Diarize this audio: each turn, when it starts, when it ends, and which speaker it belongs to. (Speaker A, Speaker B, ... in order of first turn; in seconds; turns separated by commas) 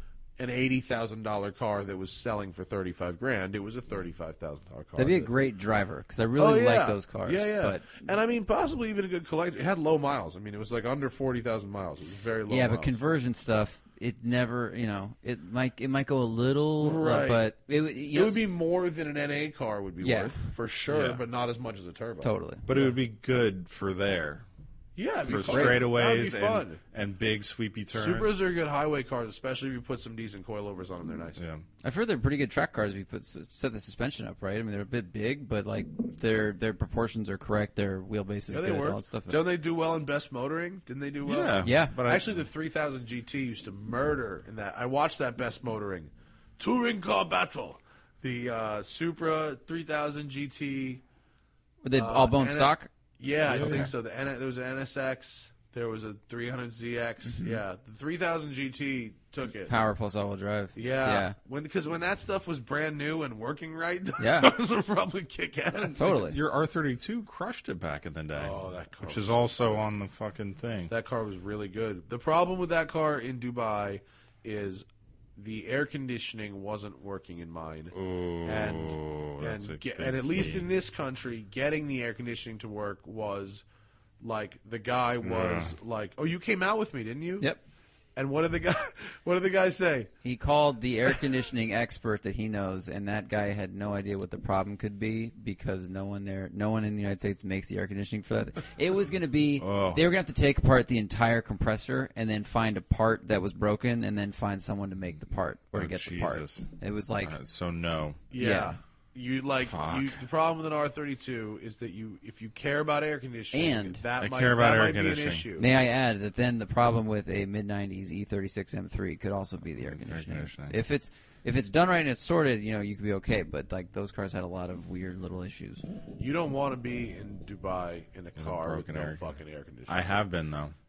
Speaker A: 0.4-5.3, Speaker B: 5.0-8.0, Speaker A: 6.4-13.0, Speaker B: 12.5-18.4, Speaker A: 16.8-17.5, Speaker A: 18.1-22.9, Speaker B: 20.0-20.4, Speaker C: 20.9-21.2, Speaker B: 22.2-22.6, Speaker C: 22.7-24.4, Speaker A: 25.0-26.8, Speaker C: 25.2-28.3, Speaker B: 25.3-25.8, Speaker A: 27.9-31.4, Speaker C: 31.4-31.6, Speaker B: 31.8-39.4, Speaker A: 38.5-51.0, Speaker C: 41.2-42.3, Speaker B: 41.6-42.0, Speaker B: 51.8-52.9, Speaker A: 51.9-59.7, Speaker C: 53.5-53.9, Speaker B: 53.5-53.9, Speaker B: 57.3-57.6, Speaker B: 59.6-61.4, Speaker A: 60.8-66.0, Speaker B: 64.2-64.5, Speaker C: 65.7-70.9, Speaker B: 66.0-66.4, Speaker A: 68.3-69.8, Speaker A: 70.9-74.8, Speaker A: 75.4-83.6, Speaker C: 77.9-80.7, Speaker A: 84.2-87.5, Speaker C: 85.2-85.8, Speaker A: 88.2-90.1, Speaker B: 90.2-107.4, Speaker C: 99.6-100.0, Speaker C: 105.7-106.7, Speaker C: 107.2-108.2, Speaker A: 108.3-115.7, Speaker B: 108.4-108.8, Speaker C: 109.6-110.2, Speaker B: 113.5-114.0, Speaker C: 114.2-115.5, Speaker B: 115.6-125.8, Speaker C: 119.8-120.8, Speaker A: 126.2-130.2, Speaker C: 128.4-129.2, Speaker C: 129.9-130.8